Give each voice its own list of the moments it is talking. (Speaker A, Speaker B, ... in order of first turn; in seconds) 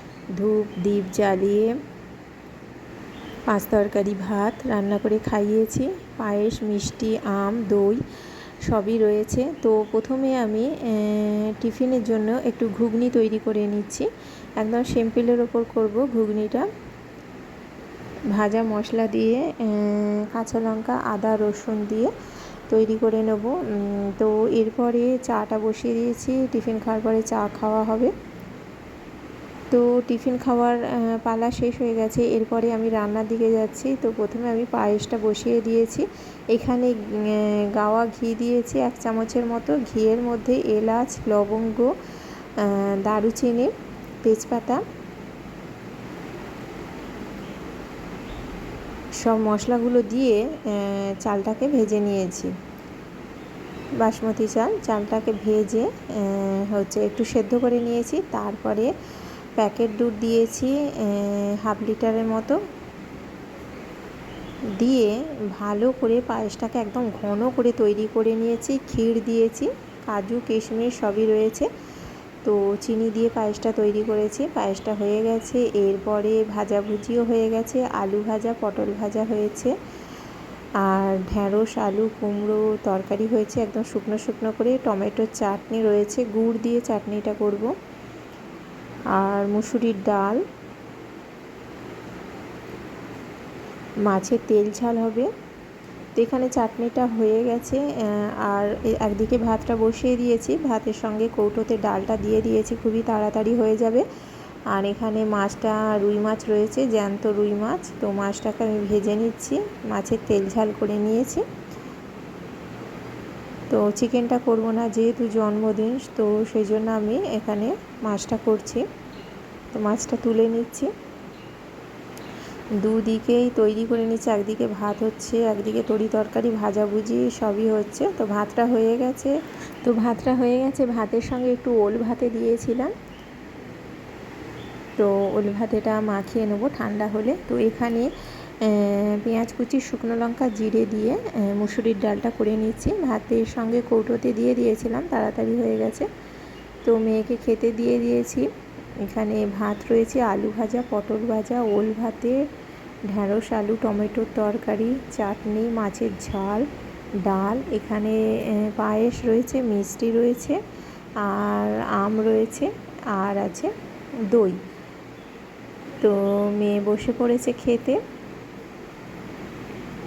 Speaker A: 0.3-1.8, 3.5-8.0, 8.6-14.1, 14.6-16.7, 18.3-22.1, 22.7-28.1, 29.7-41.9, 42.6-44.8, 49.2-52.5, 54.0-58.9, 59.6-62.6, 64.7-71.7, 72.4-79.7, 80.8-87.7, 89.1-90.4, 94.0-95.3, 96.1-104.0, 104.7-111.4, 113.7-118.9, 119.7-120.9, 122.8-132.9, 135.0-146.1, 146.8-148.5, 149.0-152.4, 153.1-156.7, 157.2-160.6, 161.2-163.7, 164.2-164.6, 166.0-168.0